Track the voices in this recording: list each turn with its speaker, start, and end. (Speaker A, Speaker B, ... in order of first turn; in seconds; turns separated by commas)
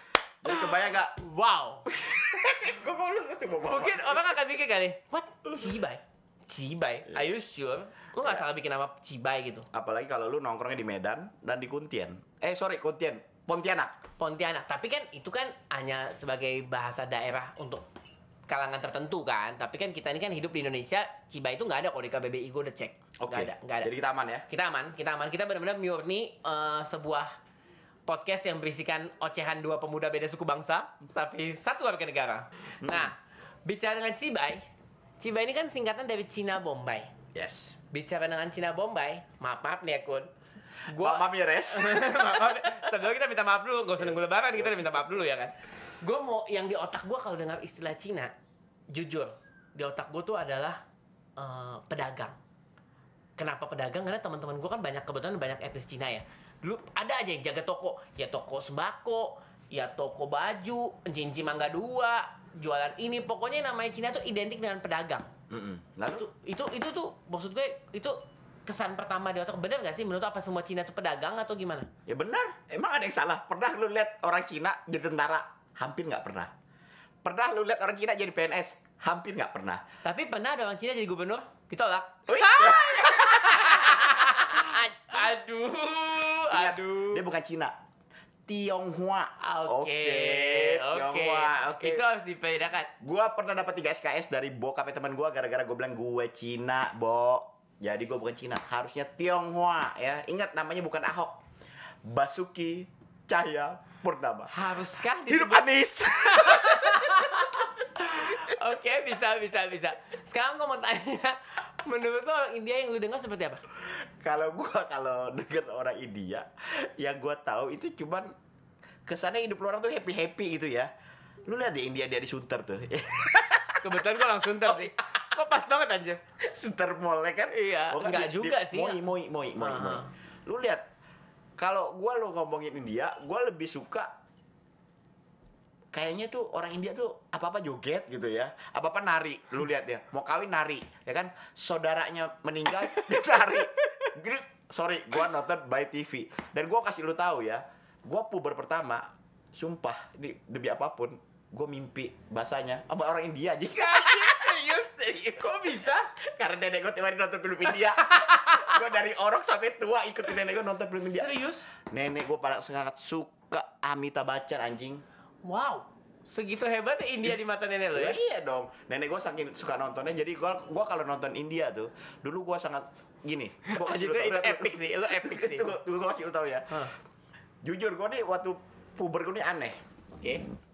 Speaker A: 0.4-1.1, Speaker B: 0.5-1.8, Speaker A: 1.9-4.3, Speaker B: 3.6-9.7, Speaker A: 9.7-13.9, Speaker B: 14.2-17.8, Speaker B: 18.5-23.9, Speaker A: 23.2-24.5, Speaker B: 24.5-27.3, Speaker B: 28.1-34.6, Speaker A: 32.8-33.1, Speaker B: 35.2-37.1, Speaker A: 37.3-37.8, Speaker B: 37.9-40.3, Speaker A: 40.9-42.9, Speaker B: 40.9-48.3, Speaker A: 44.0-45.1, Speaker B: 48.9-50.8, Speaker B: 51.4-52.4, Speaker B: 53.4-65.3, Speaker A: 65.5-66.2, Speaker B: 66.1-71.9, Speaker A: 72.1-76.5, Speaker A: 77.2-79.8, Speaker B: 80.0-87.2, Speaker A: 82.3-85.2, Speaker A: 86.5-87.7, Speaker A: 88.5-92.0, Speaker B: 89.4-92.9, Speaker A: 93.0-101.4, Speaker A: 102.0-104.5, Speaker B: 104.5-113.6, Speaker A: 105.2-107.5, Speaker A: 113.8-118.3, Speaker A: 119.1-120.9, Speaker A: 121.5-124.0, Speaker B: 123.8-126.2, Speaker A: 126.4-130.8, Speaker B: 127.5-129.0, Speaker B: 129.6-130.1, Speaker A: 131.6-134.1, Speaker A: 135.9-161.3, Speaker B: 153.7-156.1, Speaker B: 161.1-161.7, Speaker A: 161.8-165.0, Speaker B: 165.4-168.2, Speaker A: 167.9-176.8, Speaker B: 173.7-175.8, Speaker A: 177.6-179.8, Speaker B: 180.1-180.4